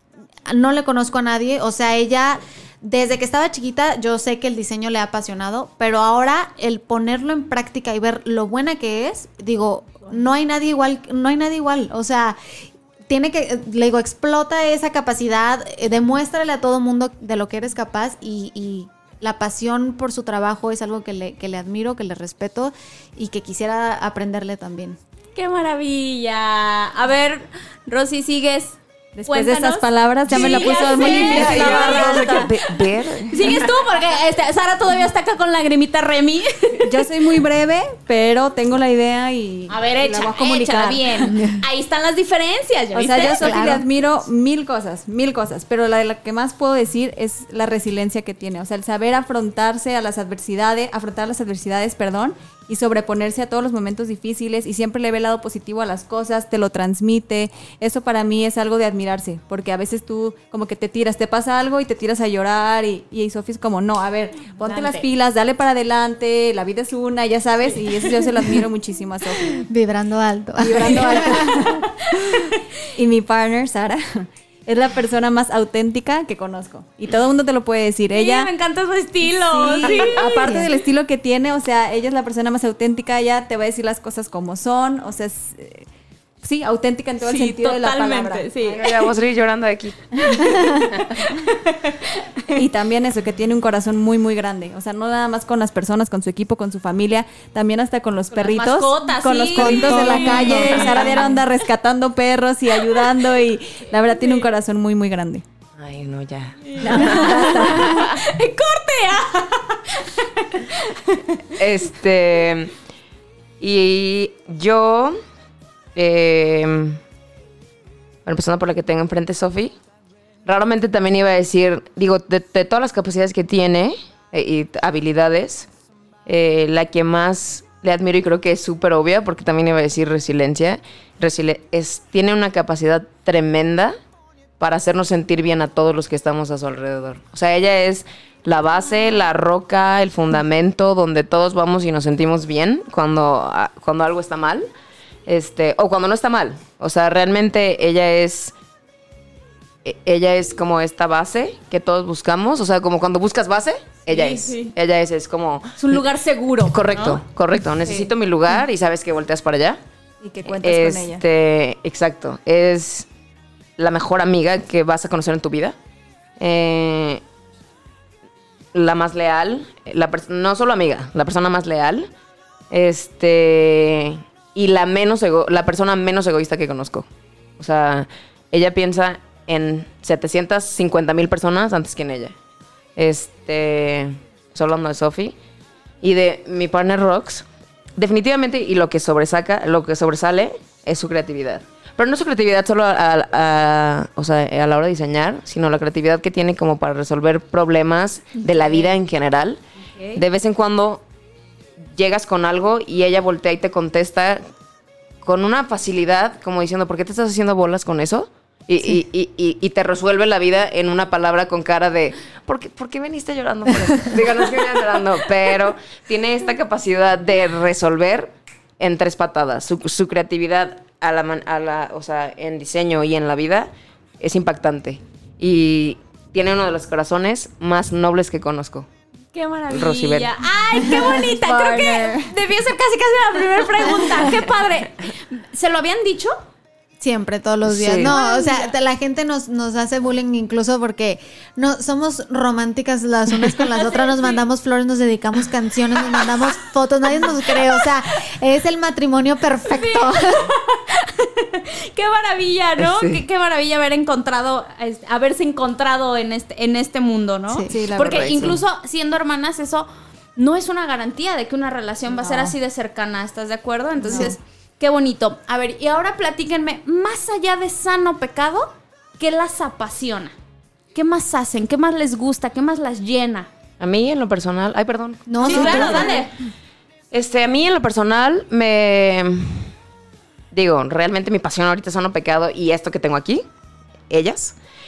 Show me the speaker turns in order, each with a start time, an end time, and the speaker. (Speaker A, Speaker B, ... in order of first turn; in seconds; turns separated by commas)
Speaker A: 0.5-12.4, Speaker A: 13.1-25.0, Speaker B: 25.4-32.5, Speaker C: 29.1-32.5, Speaker D: 30.3-33.6, Speaker B: 33.3-37.0, Speaker C: 36.8-41.6, Speaker B: 39.7-43.8, Speaker C: 42.9-69.6, Speaker A: 43.4-43.9, Speaker B: 64.6-65.1, Speaker A: 69.5-71.8, Speaker C: 70.6-72.4, Speaker B: 72.2-72.6, Speaker C: 72.9-78.5, Speaker B: 78.1-80.5, Speaker C: 79.3-85.9, Speaker A: 80.0-80.7, Speaker C: 86.4-88.8, Speaker B: 87.2-88.9, Speaker D: 88.7-90.3, Speaker A: 90.4-90.8, Speaker B: 91.2-92.5, Speaker C: 92.5-105.4, Speaker B: 98.3-101.4, Speaker A: 99.5-100.9, Speaker B: 102.8-103.1, Speaker B: 103.9-104.5, Speaker D: 105.8-108.1, Speaker B: 106.7-111.4, Speaker C: 106.8-108.1, Speaker D: 111.6-112.7, Speaker D: 113.6-115.2, Speaker D: 116.0-117.0, Speaker D: 118.3-119.7, Speaker D: 120.5-125.7, Speaker D: 126.3-133.9, Speaker D: 134.6-144.7, Speaker D: 145.3-148.5, Speaker D: 149.8-156.1, Speaker B: 154.1-154.7, Speaker B: 155.8-157.2, Speaker D: 156.7-159.8, Speaker B: 157.8-158.1, Speaker C: 160.2-161.2, Speaker D: 160.5-163.1, Speaker D: 163.8-165.8, Speaker D: 166.4-167.2, Speaker D: 168.7-172.1, Speaker D: 172.7-177.1, Speaker D: 177.6-182.3, Speaker D: 183.0-185.3, Speaker D: 186.0-187.4, Speaker D: 188.0-199.6, Speaker B: 198.4-198.9, Speaker D: 200.2-201.0, Speaker D: 201.9-204.4, Speaker D: 205.2-228.9, Speaker B: 229.3-236.3, Speaker D: 229.7-230.3, Speaker C: 230.7-232.3, Speaker A: 237.0-250.5, Speaker D: 237.7-238.1, Speaker B: 238.1-238.7, Speaker B: 243.7-244.4, Speaker B: 247.5-247.8, Speaker B: 249.7-270.4, Speaker D: 252.8-253.2, Speaker A: 257.5-257.9, Speaker C: 257.7-258.5, Speaker D: 258.0-258.6, Speaker C: 262.1-262.6, Speaker A: 264.0-264.4, Speaker C: 264.1-264.3, Speaker B: 270.9-273.5, Speaker D: 273.8-276.0, Speaker A: 275.3-276.2, Speaker B: 275.4-276.4, Speaker C: 275.6-276.1, Speaker D: 277.1-279.7, Speaker D: 280.5-283.4, Speaker D: 284.1-284.6